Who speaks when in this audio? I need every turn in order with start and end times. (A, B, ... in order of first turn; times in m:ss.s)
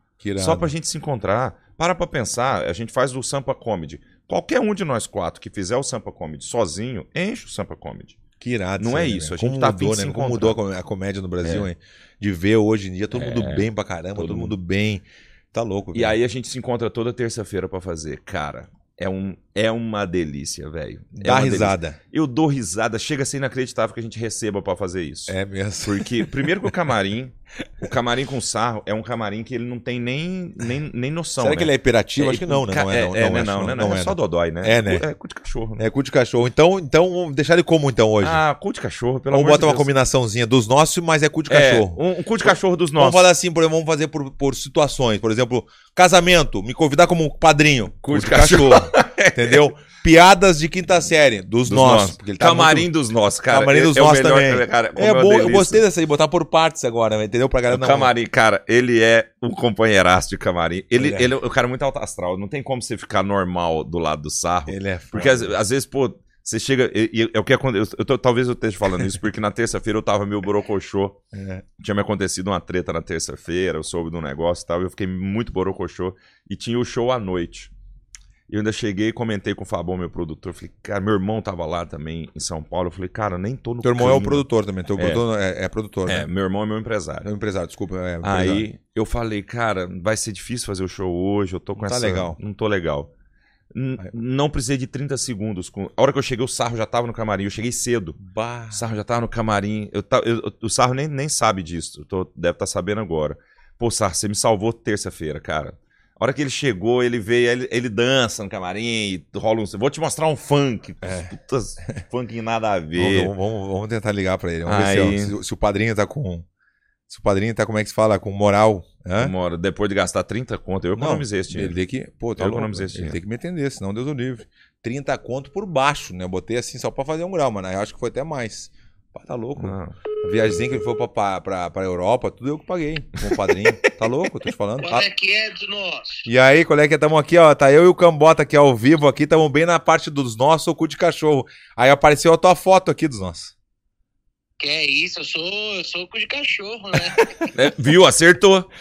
0:00.2-0:00.7 A
0:00.4-0:08.2 B
0:08.4-0:16.2 A
0:08.8-0:10.6 B
0:11.4-0:11.7 B
0:13.1-0:14.6 B
0:15.9-0:35.8 B
0:21.2-0:22.0 A
0:25.3-0:26.7 A
0:31.4-0:35.0 A
0:35.8-0:38.4 A
0:38.2-0:39.9 B
0:39.3-0:52.9 A
0:41.5-0:43.2 B
0:48.0-0:49.7 B
0:51.7-0:55.8 B
0:53.5-0:58.1 A
0:57.7-1:11.2 B
1:01.0-1:01.3 A
1:04.7-1:05.6 A
1:11.3-1:11.6 A
1:11.8-1:17.7 B
1:18.5-1:24.4 B
1:23.8-1:26.3 A
1:25.0-1:25.2 B
1:26.1-1:27.3 B
1:27.2-1:28.7 A
1:28.2-1:33.1 B
1:31.8-1:32.4 A
1:33.7-1:38.2 B
1:38.2-1:38.9 A
1:38.7-1:53.3 B
1:51.0-1:51.3 A
1:53.0-1:56.5 A
1:54.6-1:55.4 B
1:57.1-1:59.3 A
1:59.2-2:01.8 B
2:01.0-2:15.1 A
2:02.4-2:03.2 B
2:09.6-2:10.0 B
2:13.2-2:13.9 B
2:14.8-2:16.3 C
2:16.3-2:23.5 A
2:24.6-2:27.5 C
2:27.5-2:28.7 B